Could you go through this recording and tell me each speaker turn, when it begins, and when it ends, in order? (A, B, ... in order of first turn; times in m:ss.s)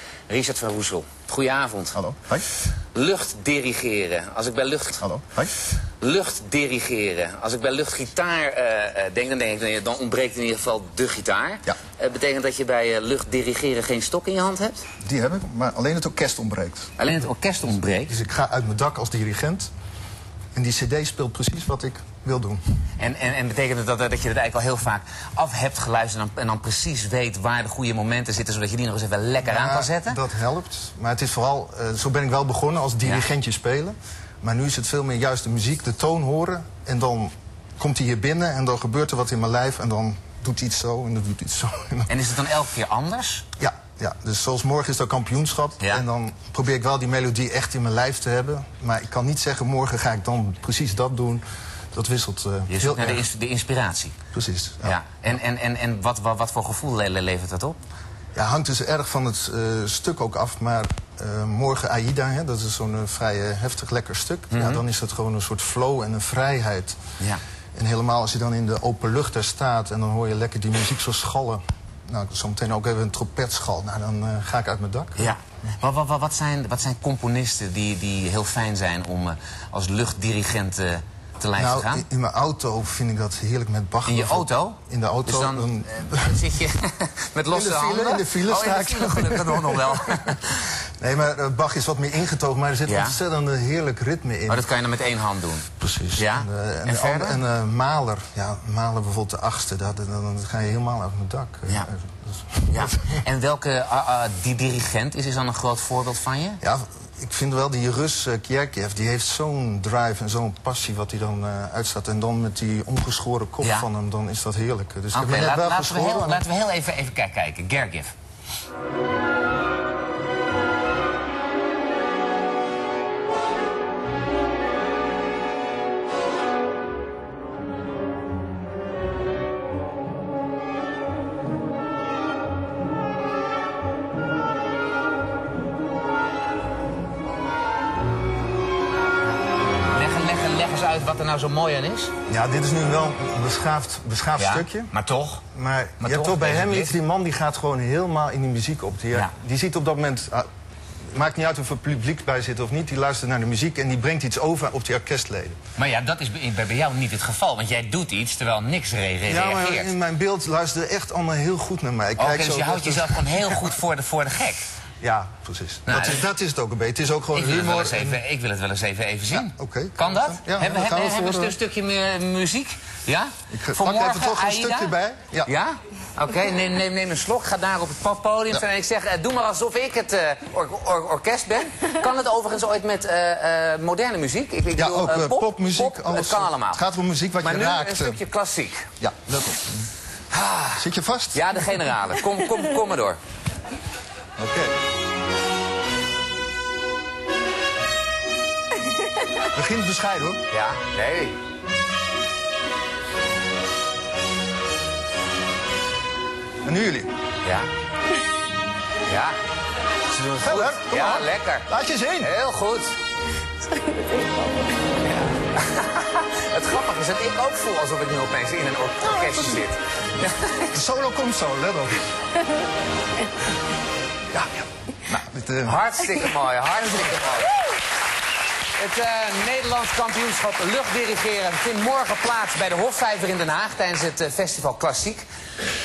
0:00.3-0:02.0 A
0:01.9-0:02.5 B
0:02.9-0:05.0 A
0:05.0-0:05.5 B
0:06.0-0:14.8 A
0:15.0-0:16.9 B
0:17.0-0:18.1 A
0:18.1-0:19.7 B
0:20.6-0:22.6 B
0:23.0-0:30.2 A
0:29.4-0:42.1 B
0:42.1-0:43.4 A
0:43.6-0:53.2 B
0:52.7-0:54.2 A
0:54.3-0:55.0 B
0:54.8-0:57.8 A
0:58.3-1:07.0 B
1:04.5-1:04.8 A
1:07.8-1:15.3 B
1:15.2-1:22.0 A
1:21.6-1:26.4 B
1:24.0-1:30.7 A
1:27.5-1:30.4 B
1:31.0-1:34.7 B
1:32.9-1:33.2 A
1:34.5-1:37.4 A
1:35.8-1:43.2 B
1:42.7-1:46.6 A
1:46.6-1:56.4 B
1:53.6-1:53.9 A
1:55.1-1:58.1 A
2:19.9-2:22.1 A
2:22.3-2:24.9 B
2:24.4-2:25.4 A
2:25.5-2:30.5 B
2:26.0-2:27.0 A
2:31.1-2:35.6 B
2:35.8-2:39.9 A
2:39.3-2:43.8 B
2:42.2-2:44.7 A
2:45.0-2:48.2 B
2:45.9-2:46.2 A
2:47.3-3:06.8 A
2:49.3-2:51.5 B
2:53.5-2:55.5 B
3:04.8-3:08.2 B
3:07.4-3:08.9 A
3:09.0-3:09.8 B
3:10.3-3:13.2 A
3:10.8-3:11.4 B
3:14.4-3:14.7 B
3:19.4-3:20.4 B
3:20.5-3:21.4 A
3:26.6-3:27.1 B
3:27.4-3:27.7 A
3:29.1-3:29.4 A
3:30.1-3:32.3 B
3:30.2-3:33.0 A
3:35.0-3:40.8 A
3:39.2-3:39.6 B
3:40.7-3:42.1 B
3:44.3-3:45.9 B
3:45.6-3:47.6 A
3:48.8-3:55.2 A